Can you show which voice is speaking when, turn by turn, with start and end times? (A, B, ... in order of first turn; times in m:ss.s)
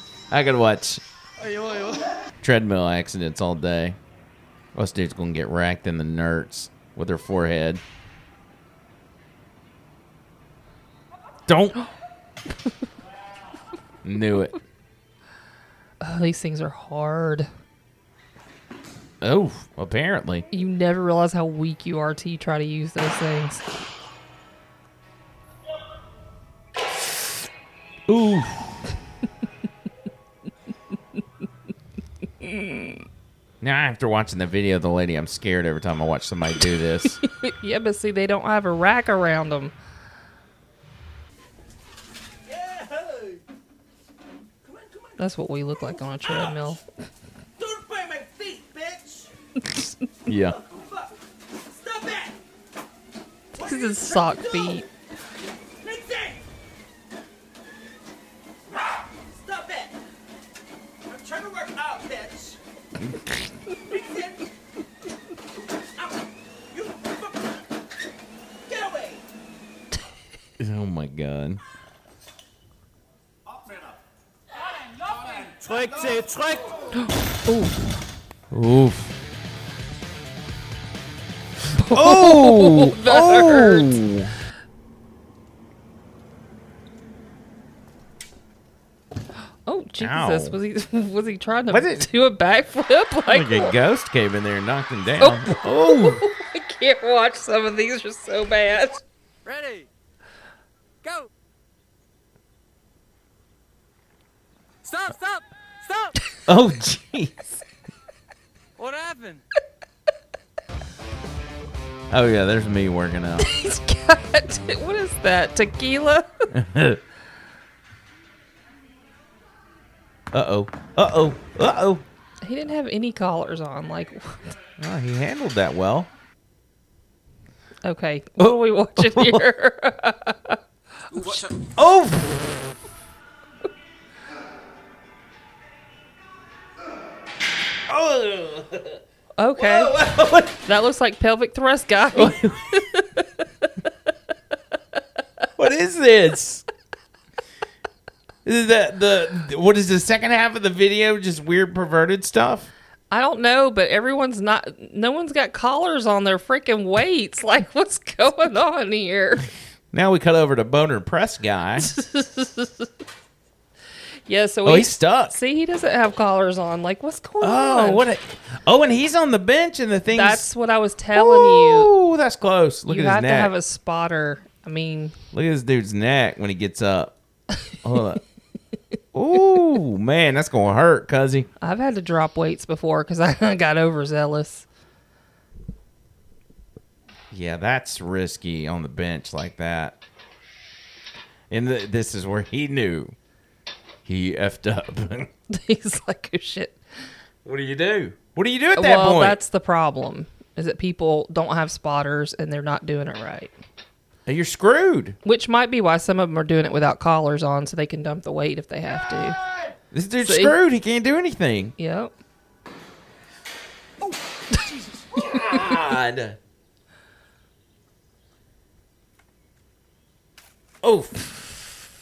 0:00.3-0:01.0 A
0:01.4-0:02.0 B
0:02.4-0:04.0 A
0:04.7-0:07.8 A
0:11.5-0:11.8 A
0:14.0-0:14.6 A
0:16.0-0:17.5 C
0:19.2-0:20.5 A
0:20.5-0:23.6 C
0:28.1-0:28.8 A
0:32.4-0:33.0 C
0:33.6-0:37.2 A
0:37.2-0:39.7 C
0:42.5-0:43.4 B
0:44.6-0:45.2 B
0:45.2-0:46.8 C
0:46.2-0:46.7 B
0:47.6-0:49.3 B
0:50.3-0:50.6 A
0:50.3-0:51.1 B
0:51.7-0:52.4 B
0:53.6-0:54.8 B
0:53.6-0:54.9 C
0:55.8-0:56.4 B
0:59.3-0:59.9 B
1:01.1-1:02.6 B
1:03.0-1:03.3 A
1:03.9-1:04.4 B
1:06.7-1:07.5 B
1:08.7-1:09.2 B
1:10.6-1:11.6 A
1:15.4-1:16.7 B
1:17.5-1:17.8 C
1:18.5-1:19.2 A
1:21.8-1:24.0 C
1:21.8-1:24.3 A
1:29.7-1:33.8 C
1:30.0-1:30.6 A
1:31.7-1:32.1 A
1:33.3-1:36.2 A
1:35.2-1:39.0 C
1:39.4-1:39.9 B
1:41.0-1:41.3 B
1:44.8-1:46.2 B
1:46.5-1:47.6 A
1:48.8-1:49.4 B
1:52.1-1:53.5 A
1:53.4-1:56.3 C
1:56.5-1:57.0 A
2:00.3-2:02.0 A
2:02.4-2:04.5 C
2:04.8-2:06.1 A
2:07.8-2:10.6 C
2:08.4-2:09.4 A
2:11.6-2:12.6 A
2:17.9-2:19.0 A
2:19.4-2:20.0 C
2:19.6-2:20.6 A
2:20.6-2:23.3 C
2:22.1-2:22.6 A
2:25.6-2:26.6 A
2:28.4-2:32.7 A
2:33.1-2:39.5 C
2:39.9-2:41.9 A
2:41.8-2:42.9 C
2:44.3-2:48.1 C
2:44.6-2:45.4 A
2:47.4-2:50.5 A
2:50.1-2:51.9 C
2:51.2-2:53.5 A
2:52.9-2:55.1 C
2:55.3-2:57.2 A
2:57.8-2:58.2 A
2:59.1-3:01.5 A
3:01.6-3:04.7 C
3:07.3-3:10.0 A
3:11.5-3:13.2 A
3:14.1-3:15.3 A
3:15.5-3:16.8 C
3:17.4-3:19.4 A
3:18.8-3:23.5 C
3:24.3-3:25.2 A
3:25.2-3:29.4 C
3:29.9-3:31.7 A
3:30.2-3:30.6 C
3:31.8-3:32.1 C
3:35.1-3:36.4 A
3:40.8-3:41.3 A